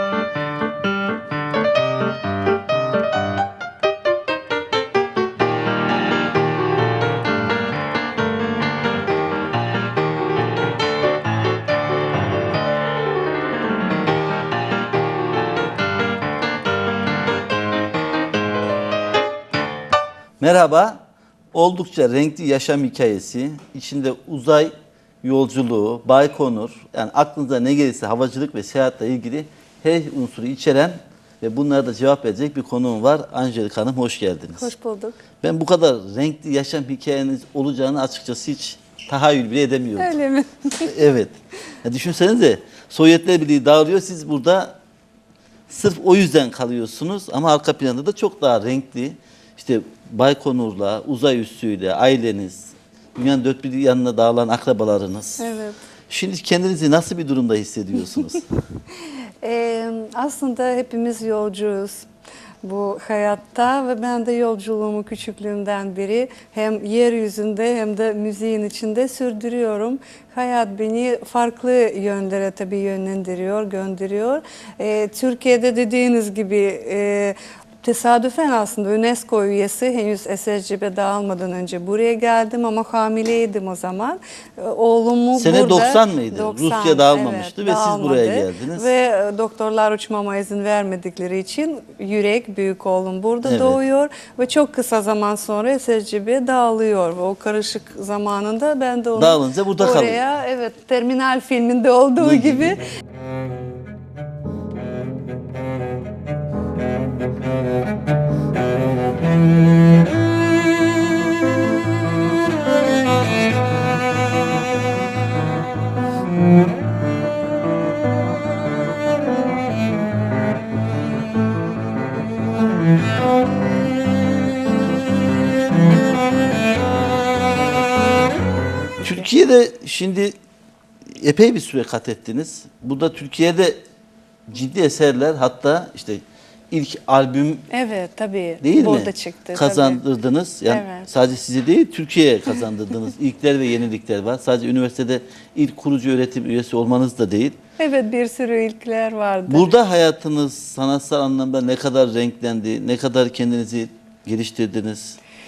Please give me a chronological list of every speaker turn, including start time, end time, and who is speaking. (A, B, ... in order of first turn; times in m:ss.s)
0:20.4-0:21.0 A
0:21.5-0:34.7 A
0:34.6-0:35.2 B
0:35.4-0:40.1 A
0:40.0-0:40.9 B
0:40.8-0:44.8 A
0:45.7-0:55.5 A
0:55.4-0:55.8 B
0:56.1-0:58.4 A
0:59.4-1:02.1 B
1:02.6-1:42.8 B
1:25.3-1:28.9 A
1:33.4-1:33.8 A
1:39.2-1:40.2 A
1:42.2-1:42.7 A
2:09.0-2:10.4 A
2:11.1-2:13.8 A
2:14.5-2:17.6 A
2:17.7-2:20.0 B
2:18.6-2:27.6 A
2:20.7-2:21.1 B
2:27.8-2:29.7 B
2:29.5-2:35.2 A